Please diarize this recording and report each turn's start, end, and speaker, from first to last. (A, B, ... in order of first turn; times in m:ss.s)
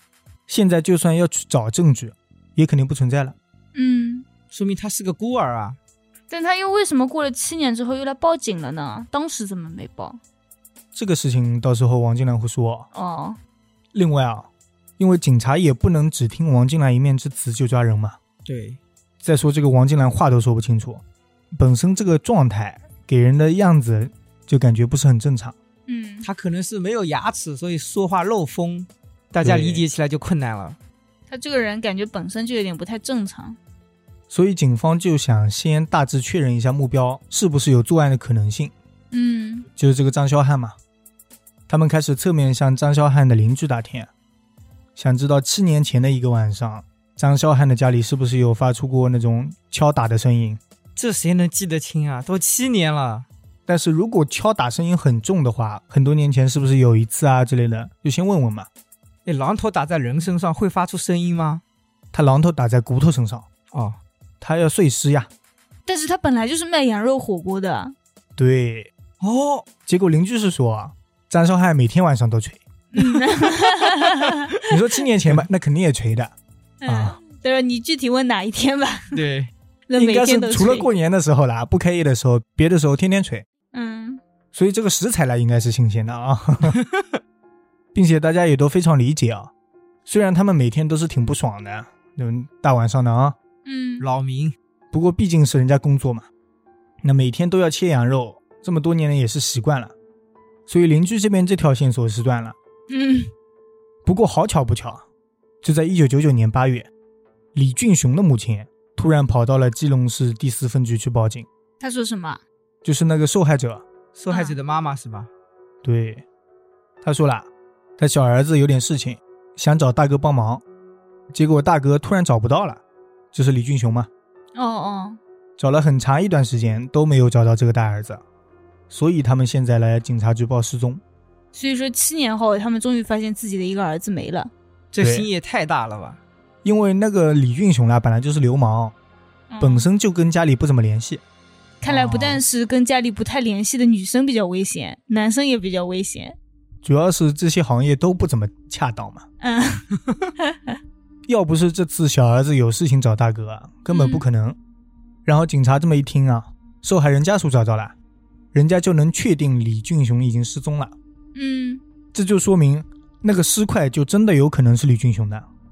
0:00.5-0:03.4 A
0:03.7-0:04.2 B
0:04.5-0:05.8 C
0:06.3-0:10.2 B
0:10.9-0:12.9 A
0:12.9-0:13.4 B
0:13.9-0:18.2 A
0:18.4-0:18.8 C
0:19.2-0:21.0 A
0:21.5-0:25.5 A
0:25.9-0:26.3 B
0:26.2-0:30.8 C
0:29.4-0:29.8 A
0:31.3-0:33.6 B
0:34.3-0:38.7 A
0:39.1-0:39.7 B
0:39.8-0:40.8 A
0:41.7-0:44.1 A
0:45.0-0:50.6 A
0:51.0-0:53.3 C
0:53.7-0:58.7 A
0:59.2-1:01.6 C
1:02.1-1:03.4 A
1:03.7-1:04.0 C
1:04.4-1:05.3 A
1:05.8-1:07.9 B
1:08.4-1:08.9 A
1:09.2-1:09.7 C
1:09.8-1:12.6 A
1:12.9-1:14.6 B
1:13.5-1:14.0 C
1:14.7-1:16.3 A
1:16.8-1:19.2 B
1:16.8-1:17.2 A
1:19.1-1:19.5 C
1:19.9-1:20.9 B
1:20.0-1:23.4 A
1:23.7-1:24.2 B
1:24.5-1:26.8 A
1:26.7-1:27.1 C
1:27.9-1:29.5 A
1:30.0-1:33.4 A
1:33.6-1:34.0 B
1:34.0-1:34.5 C
1:34.9-1:36.3 A
1:37.0-1:39.9 A
1:40.7-1:42.6 A
1:42.9-1:43.3 B
1:44.0-1:45.0 A
1:45.6-1:46.9 A
1:47.5-1:51.5 A
1:51.8-1:52.4 B
1:52.8-1:53.8 A
1:54.1-1:55.3 C
1:54.3-1:54.6 B
1:55.8-1:56.2 A
1:57.0-2:00.6 A
2:01.3-2:02.8 A
2:03.3-2:04.1 A
2:04.5-2:05.2 B
2:05.6-2:08.2 A
2:08.9-2:11.0 A
2:11.5-2:14.5 B
2:14.9-2:16.2 C
2:15.0-2:15.3 A
2:16.6-2:18.9 A
2:19.5-2:19.9 B
2:19.6-2:21.2 A
2:21.8-2:26.4 B
2:21.8-2:22.4 C
2:26.8-2:29.2 A
2:29.4-2:29.9 B
2:30.4-2:30.7 B
2:31.3-2:34.6 A
2:33.9-2:34.2 B
2:35.2-2:37.9 A
2:38.5-2:40.9 A
2:41.3-2:41.8 B
2:42.1-2:45.5 A